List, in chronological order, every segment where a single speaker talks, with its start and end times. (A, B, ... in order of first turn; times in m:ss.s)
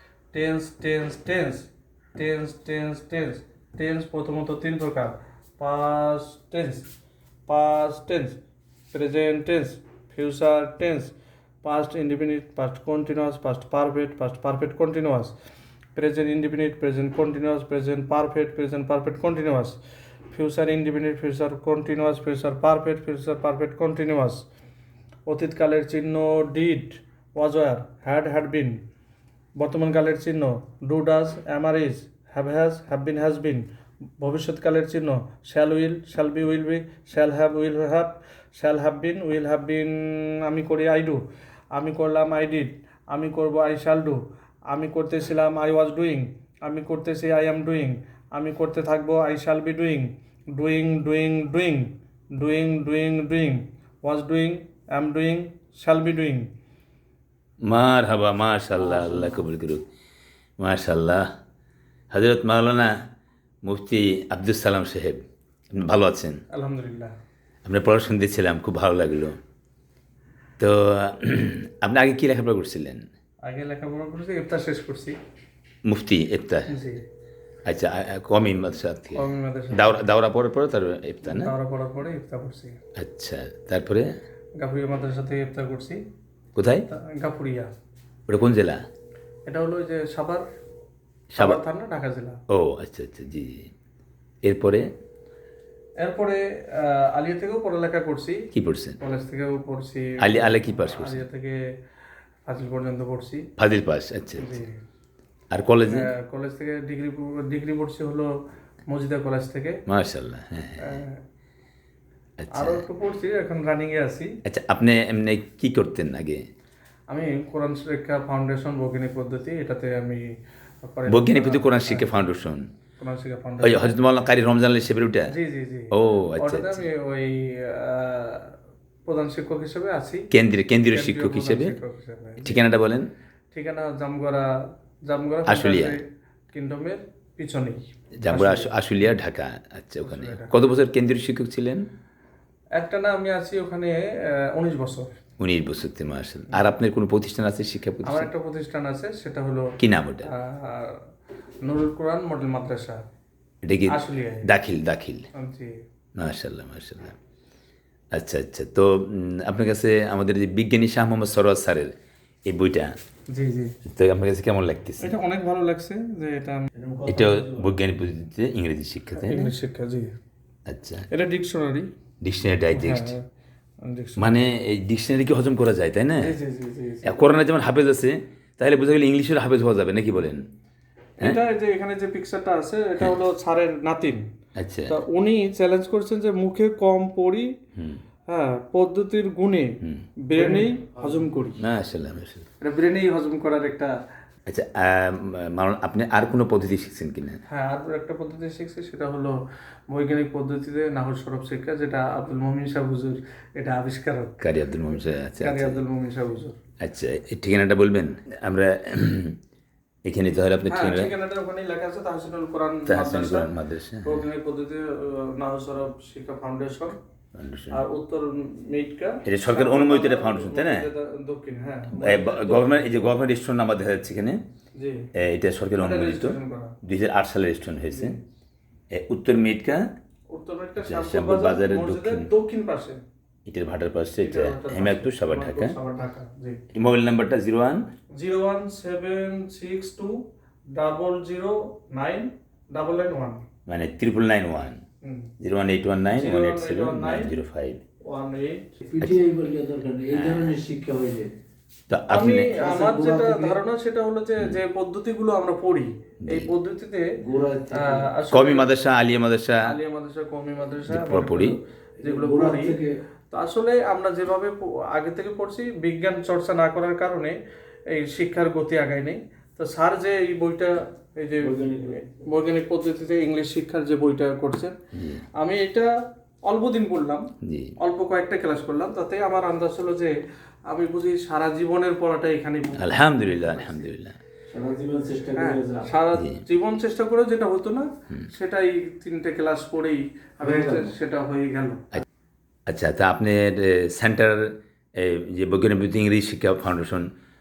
0:00.3-0:06.9 A
0:07.5-0:08.4 A
0:08.9-0:15.4 A
0:16.0-0:19.8 A
0:20.3-0:24.5 A
0:25.3-0:28.8 A
0:29.6-0:33.7 A
0:34.2-0:56.5 A
0:57.7-0:59.8 B
1:00.6-1:01.3 B
1:02.1-1:02.9 B
1:03.6-1:05.2 B
1:05.7-1:06.4 B
1:06.5-1:07.1 A
1:07.6-1:09.4 B
1:10.6-1:13.1 B
1:13.4-1:15.2 A
1:15.9-1:16.7 B
1:16.7-1:17.0 A
1:17.6-1:21.5 B
1:19.2-1:20.0 A
1:21.3-1:22.8 A
1:23.0-1:24.1 B
1:24.6-1:26.0 A
1:26.6-1:26.9 B
1:26.9-1:27.7 A
1:28.3-1:28.8 B
1:29.5-1:30.4 A
1:31.3-1:31.6 B
1:31.4-1:32.4 A
1:32.5-1:33.7 B
1:34.4-1:34.9 B
1:36.0-1:38.5 A
1:38.5-1:39.0 B
1:39.0-1:41.6 A
1:40.2-1:41.2 B
1:42.5-1:43.5 A
1:43.6-1:44.6 B
1:44.4-1:44.8 A
1:45.5-1:46.1 B
1:45.9-1:48.3 A
1:48.9-1:49.8 A
1:49.9-1:51.0 B
1:50.8-1:51.2 A
1:52.4-1:52.8 B
1:52.6-1:54.3 A
1:54.4-1:56.4 B
1:57.1-2:00.3 A
2:00.8-2:02.1 A
2:01.1-2:02.7 B
2:03.0-2:03.9 A
2:03.6-2:05.3 B
2:05.3-2:08.5 A
2:05.9-2:06.9 B
2:09.1-2:10.3 A
2:10.3-2:11.8 B
2:10.9-2:12.6 A
2:12.4-2:13.1 B
2:13.5-2:14.6 A
2:15.1-2:18.7 A
2:15.5-2:16.0 B
2:18.2-2:21.9 B
2:20.0-2:20.5 A
2:22.8-2:25.1 A
2:25.4-2:28.3 B
2:28.0-2:29.7 A
2:29.8-2:30.3 B
2:30.2-2:31.0 A
2:31.6-2:33.0 A
2:33.6-2:35.3 B
2:33.9-2:34.5 A
2:35.4-2:35.8 A
2:36.2-2:37.2 B
2:38.1-2:41.9 B
2:42.5-2:43.0 B
2:43.3-2:43.7 A
2:43.8-2:45.1 B
2:45.0-2:46.7 A
2:46.7-2:47.7 C
2:47.0-2:49.5 B
2:49.2-2:50.2 A
2:50.7-2:51.1 B
2:51.1-2:51.9 A
2:52.2-2:53.2 B
2:52.8-2:53.2 A
2:53.8-2:54.3 A
2:54.2-2:56.4 B
2:56.2-2:57.2 A
2:57.0-3:00.4 B
3:01.2-3:04.2 A
3:04.6-3:05.0 B
3:04.9-3:07.5 A
3:07.8-3:08.0 B
3:08.3-3:11.6 A
3:10.4-3:11.2 C
3:11.6-3:12.5 B
3:12.6-3:13.9 A
3:14.5-3:17.4 B
3:17.5-3:19.4 A
3:19.9-3:24.4 A
3:24.4-3:25.8 B
3:25.4-3:26.6 A
3:26.8-3:29.4 B
3:30.0-3:31.1 B
3:30.7-3:33.5 A
3:32.9-3:34.3 B
3:34.0-3:37.0 A
3:37.4-3:37.8 B
3:37.7-3:43.1 A
3:39.2-3:40.9 B
3:41.9-3:44.4 B
3:44.8-3:45.1 A
3:45.2-3:48.2 B
3:45.8-3:46.8 A
3:47.9-3:48.2 A
3:48.9-3:49.8 B
3:50.3-3:53.0 A
3:50.8-3:52.3 B
3:53.5-3:55.8 B
3:54.2-3:56.6 A
3:56.7-3:57.9 B
3:58.2-4:03.4 A
4:03.7-4:04.8 B
4:05.0-4:05.3 A
4:05.4-4:07.8 B
4:06.1-4:07.4 A
4:08.1-4:08.7 A
4:08.9-4:11.3 C
4:10.1-4:10.6 B
4:11.9-4:12.6 B
4:12.1-4:17.1 A
4:12.5-4:13.6 C
4:16.2-4:16.5 B
4:17.2-4:18.1 C
4:17.7-4:18.7 A
4:18.3-4:19.6 B
4:19.6-4:22.8 A
4:20.8-4:21.6 B
4:22.0-4:23.0 C
4:23.3-4:27.4 A
4:27.9-4:34.8 A
4:31.4-4:32.2 C
4:34.9-4:35.2 B
4:35.4-4:35.9 A
4:36.4-4:37.3 A
4:37.4-4:37.7 B
4:37.8-4:40.1 A
4:40.7-4:43.9 A
4:42.8-4:44.2 B
4:44.5-4:45.9 C
4:45.4-4:51.8 A
4:46.2-4:46.4 B
4:50.4-4:50.9 C
4:52.7-4:57.1 B